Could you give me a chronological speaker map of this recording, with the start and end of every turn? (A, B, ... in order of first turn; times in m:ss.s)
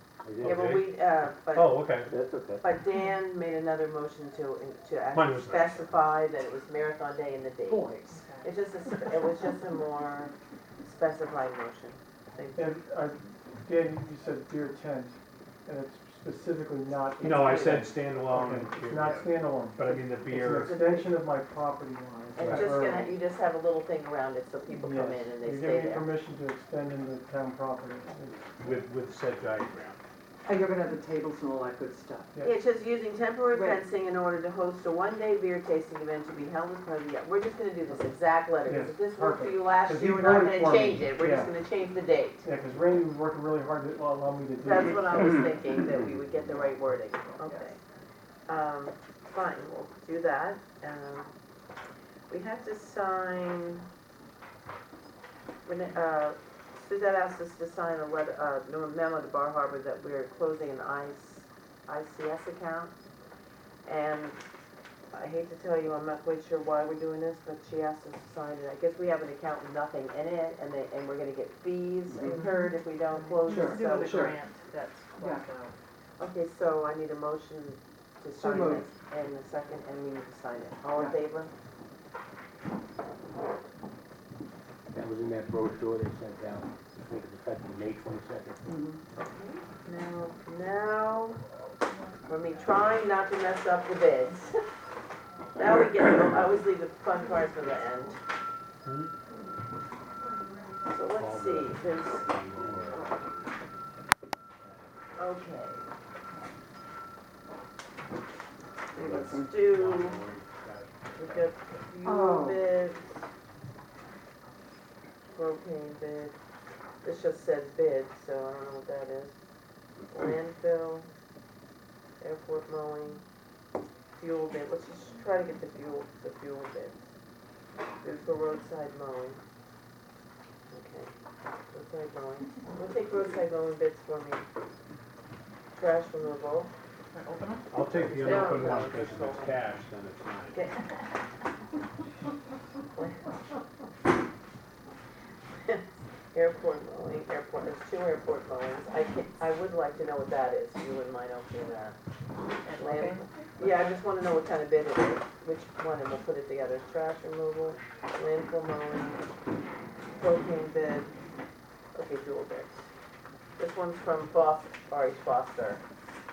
0:00.2-0:00.7 A
0:00.4-0:02.2 B
0:00.4-0:01.8 C
0:02.1-0:02.6 A
0:02.6-0:12.7 C
0:05.1-0:06.1 B
0:07.6-0:08.2 D
0:08.1-0:08.5 E
0:12.5-0:23.2 F
0:17.2-0:17.8 C
0:17.2-0:20.8 B
0:20.6-0:21.1 C
0:22.3-0:26.1 C
0:22.4-0:22.7 B
0:24.8-0:28.5 F
0:28.6-0:30.0 B
0:30.4-0:32.3 D
0:32.4-0:42.5 C
0:33.5-0:33.8 D
0:38.6-0:41.5 F
0:42.4-0:45.5 F
0:44.6-0:47.8 C
0:48.5-0:51.3 C
0:52.3-0:53.9 C
0:55.6-1:02.9 C
1:03.8-1:04.4 C
1:05.1-1:14.2 C
1:12.1-1:12.5 D
1:12.3-1:15.8 E
1:13.5-1:14.4 D
1:15.2-1:15.5 D
1:16.2-1:21.5 C
1:18.4-1:18.9 D
1:24.9-1:28.6 A
1:28.6-1:29.0 D
1:29.2-1:31.4 C
1:32.2-1:34.6 C
1:35.5-1:38.2 C
1:38.8-1:39.1 B
1:40.8-1:42.2 C
1:41.1-1:43.5 B
1:45.2-1:45.9 C
1:48.9-1:50.2 C
1:48.9-1:51.6 B
1:51.2-1:53.1 C
1:52.0-1:52.7 D
1:55.3-1:56.3 C
1:57.0-1:59.3 C
2:00.1-2:01.1 C
2:02.2-2:03.2 C
2:04.2-2:07.0 C
2:08.0-2:09.4 C
2:10.7-2:11.1 C
2:11.7-2:14.4 C
2:15.7-2:16.7 C
2:17.1-2:17.6 E
2:17.7-2:20.6 B
2:18.1-2:19.5 C
2:25.6-2:32.0 C
2:32.6-2:33.3 E
2:32.7-2:39.2 C
2:40.2-2:41.1 C
2:41.9-2:42.7 C
2:43.6-2:45.8 C